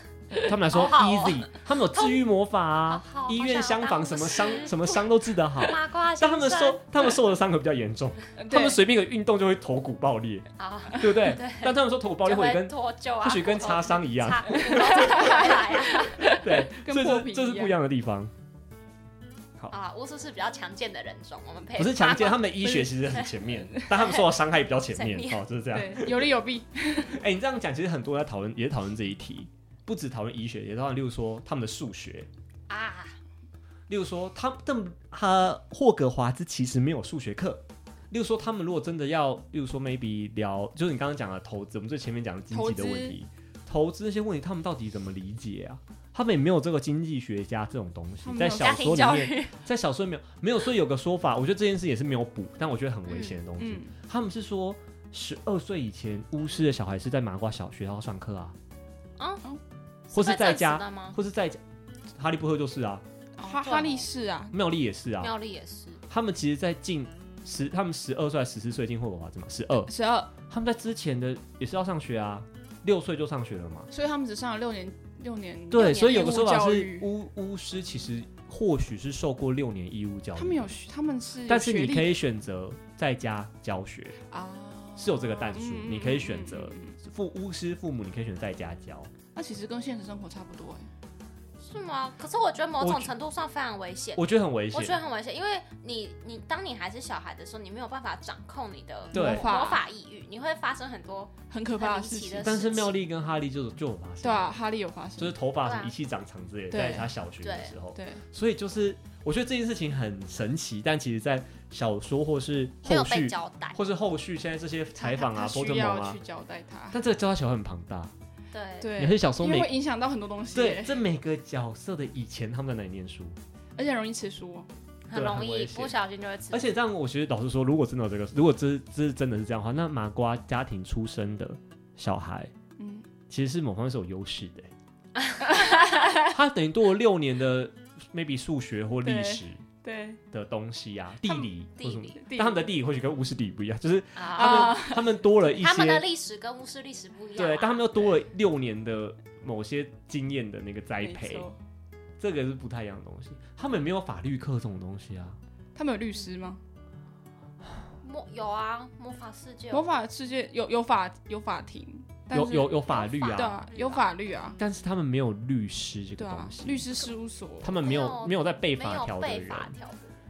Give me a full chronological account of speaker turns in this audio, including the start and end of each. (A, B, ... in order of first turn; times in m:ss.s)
0:00.4-0:15.6 A
0:00.7-0:02.2 B
0:02.9-0:05.1 B
0:05.6-0:06.8 B
0:08.4-0:08.8 C
0:10.6-0:16.3 B
0:14.6-0:17.8 C
0:16.2-0:18.3 A
0:19.7-0:23.3 B
0:21.8-0:26.3 A
0:24.0-0:24.2 B
0:24.9-0:25.4 B
0:25.7-0:27.2 C
0:27.0-0:32.3 A
0:32.7-0:33.2 B
0:33.9-0:58.6 A
0:42.5-0:43.2 C
0:48.2-0:49.1 C
0:48.5-0:49.5 B
0:53.1-0:53.4 B
0:53.6-0:54.0 C
0:59.2-0:59.4 B
1:00.1-1:01.2 B
1:00.1-1:01.6 A
1:02.1-1:03.0 A
1:03.4-1:04.6 C
1:03.4-1:04.1 B
1:04.5-1:05.4 A
1:05.2-1:06.0 B
1:06.1-1:09.9 A
1:09.9-1:10.3 C
1:10.5-1:13.9 A
1:13.9-1:17.1 C
1:15.7-1:20.7 A
1:20.4-1:22.2 C
1:21.5-1:24.2 A
1:24.3-1:27.0 C
1:25.0-1:29.1 A
1:29.4-1:30.9 C
1:31.6-1:43.0 B
1:32.8-1:33.1 A
1:34.2-1:35.0 A
1:39.1-1:39.8 C
1:39.1-1:39.5 A
1:41.5-1:42.6 C
1:42.4-1:44.6 A
1:44.2-1:45.4 C
1:45.2-1:56.2 A
1:45.6-1:45.9 B
1:46.7-1:47.1 C
1:47.4-1:47.7 B
1:48.0-1:48.2 C
1:52.8-1:53.8 B
1:55.0-1:57.0 C
1:56.9-1:58.1 A
1:58.5-1:58.9 B
1:58.8-2:01.0 C
1:59.0-1:59.8 A
2:00.5-2:03.4 A
2:03.8-2:04.7 C
2:05.1-2:06.7 B
2:05.1-2:06.0 A
2:06.5-2:12.5 A
2:12.8-2:13.1 C
2:13.3-2:14.7 A
2:15.2-2:16.2 B
2:15.5-2:16.3 C
2:16.2-2:19.6 A
2:19.0-2:20.2 C
2:20.3-2:26.1 A
2:21.2-2:21.5 C
2:21.8-2:22.2 B
2:22.1-2:22.8 C
2:24.2-2:24.9 B
2:24.4-2:25.1 C
2:25.6-2:28.1 B
2:27.4-2:31.5 A
2:31.0-2:31.6 C
2:32.2-2:35.4 A
2:35.8-2:36.6 C
2:38.0-2:39.9 B
2:39.7-2:44.6 C
2:42.3-2:43.6 A
2:42.9-2:44.1 B
2:44.6-2:46.9 A
2:46.2-2:47.8 C
2:47.6-2:49.7 A
2:47.8-2:50.2 B